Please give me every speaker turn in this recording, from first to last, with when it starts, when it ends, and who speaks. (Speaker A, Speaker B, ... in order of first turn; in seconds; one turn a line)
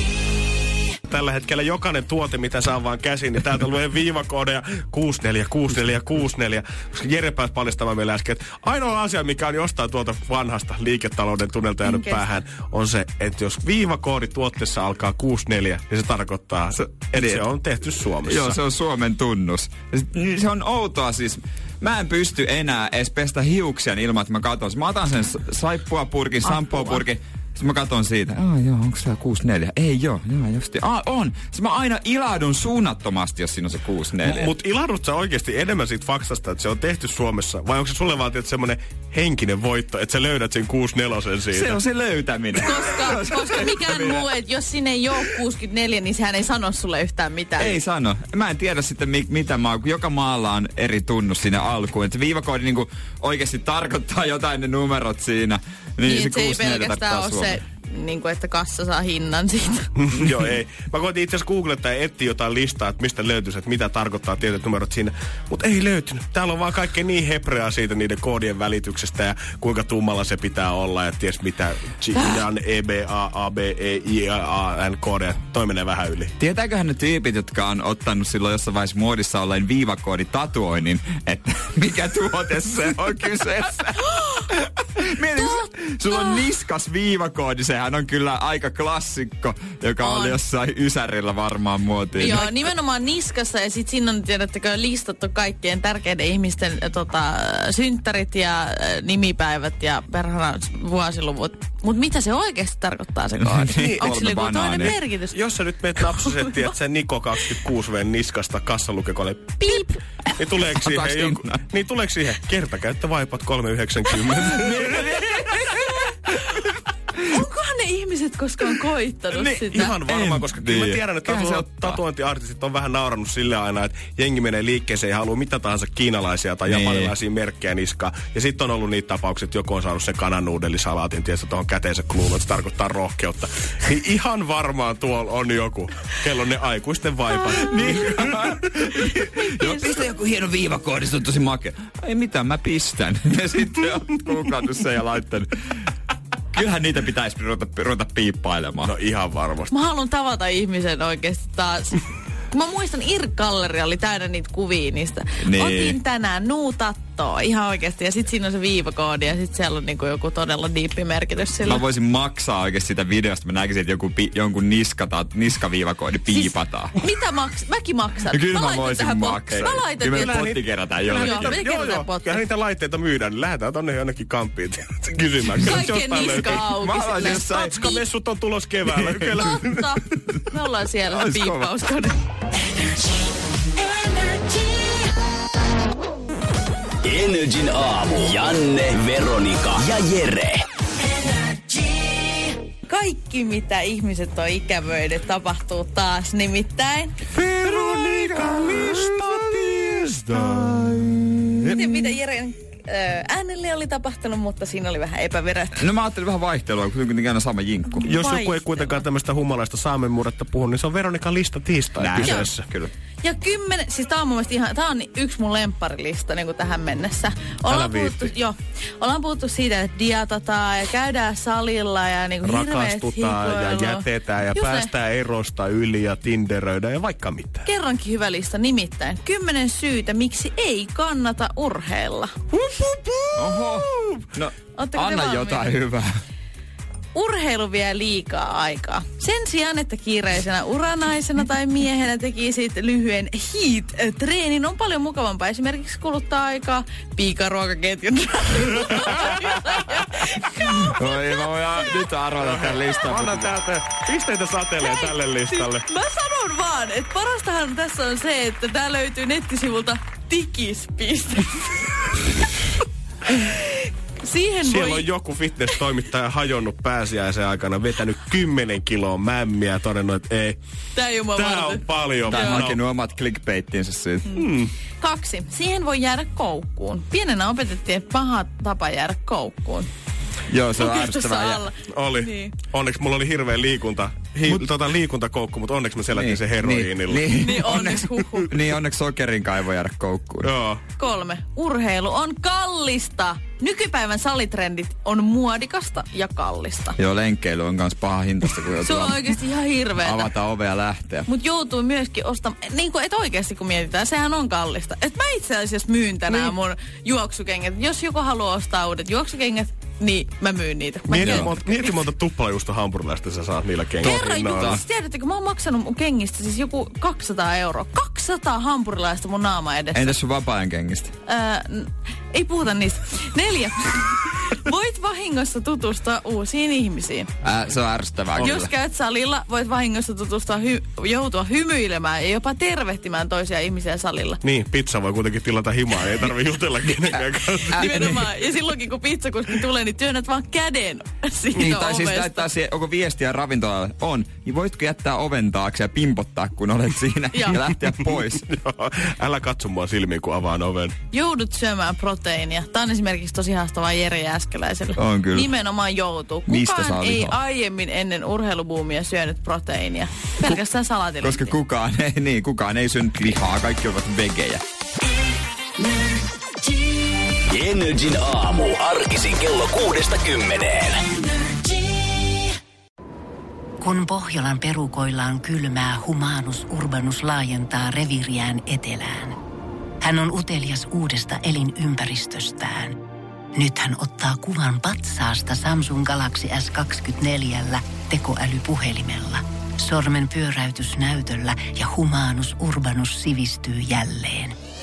Speaker A: 1.1-18.6
Speaker B: 11.8-12.2
Speaker C: 16.7-17.4
Speaker C: 18.2-34.5
Speaker B: 26.4-27.0
Speaker A: 34.2-41.8
Speaker C: 41.5-44.3
Speaker B: 42.5-47.8
Speaker C: 47.6-57.5
Speaker B: 56.0-59.9
Speaker A: 60.0-76.3
Speaker C: 76.4-92.7
Speaker B: 85.3-86.5
Speaker B: 90.0-90.4
Speaker B: 92.1-105.3
Speaker C: 103.4-105.0
Speaker A: 103.7-109.6
Speaker B: 106.2-106.6
Speaker B: 109.6-110.0
Speaker A: 110.4-115.2
Speaker C: 110.6-111.6
Speaker C: 114.3-116.6
Speaker B: 117.3-120.0
Speaker C: 119.3-122.0
Speaker A: 119.7-138.7
Speaker C: 126.7-127.1
Speaker C: 137.5-145.5
Speaker B: 139.4-139.9
Speaker C: 146.5-148.9
Speaker A: 148.8-149.7
Speaker B: 149.7-161.8
Speaker C: 155.4-156.0
Speaker C: 161.6-166.9
Speaker B: 166.2-172.4
Speaker C: 168.3-171.6
Speaker A: 169.5-176.7
Speaker C: 175.6-177.8
Speaker B: 175.6-178.0
Speaker A: 177.2-180.1
Speaker C: 178.9-179.5
Speaker B: 179.5-182.2
Speaker C: 181.1-181.7
Speaker B: 183.8-185.1
Speaker D: 187.0-190.6
Speaker B: 191.8-197.2
Speaker A: 197.3-200.8
Speaker C: 197.6-202.1
Speaker B: 201.7-205.8
Speaker C: 205.7-208.1
Speaker B: 207.9-208.8
Speaker A: 208.0-212.7
Speaker C: 212.0-212.9
Speaker B: 212.2-212.5
Speaker B: 213.2-224.9
Speaker A: 217.7-218.3
Speaker A: 222.4-227.7
Speaker B: 227.6-232.4
Speaker C: 233.0-236.2
Speaker B: 234.7-235.8
Speaker B: 237.1-251.4
Speaker A: 248.8-249.3
Speaker C: 249.2-249.8
Speaker C: 250.5-253.5
Speaker A: 252.4-255.8
Speaker B: 254.8-262.0
Speaker B: 263.3-265.1
Speaker A: 264.6-270.6
Speaker B: 270.9-272.6
Speaker A: 271.3-272.8
Speaker C: 272.3-274.3
Speaker B: 274.3-279.9
Speaker A: 274.3-274.7
Speaker C: 280.5-281.6
Speaker B: 280.7-282.5
Speaker A: 281.9-287.3
Speaker C: 286.1-290.5
Speaker B: 287.4-288.5
Speaker A: 290.4-290.8
Speaker B: 291.0-297.0
Speaker C: 297.0-299.3
Speaker B: 298.8-300.3
Speaker C: 300.0-301.3
Speaker B: 301.3-311.9
Speaker A: 311.1-314.8
Speaker C: 311.2-311.5
Speaker B: 314.0-320.1
Speaker C: 314.0-314.8
Speaker C: 319.9-321.1
Speaker B: 321.2-327.3
Speaker C: 327.4-328.7
Speaker A: 328.4-328.6
Speaker B: 328.4-334.4
Speaker A: 334.4-337.9
Speaker B: 337.7-342.5
Speaker C: 337.7-338.2
Speaker C: 341.5-348.4
Speaker B: 347.3-347.6
Speaker A: 348.3-350.9
Speaker B: 351.1-361.5
Speaker C: 354.9-355.5
Speaker C: 356.5-357.4
Speaker C: 361.2-364.6
Speaker D: 367.5-371.0
Speaker E: 373.8-379.4
Speaker E: 380.0-383.0
Speaker E: 383.5-394.5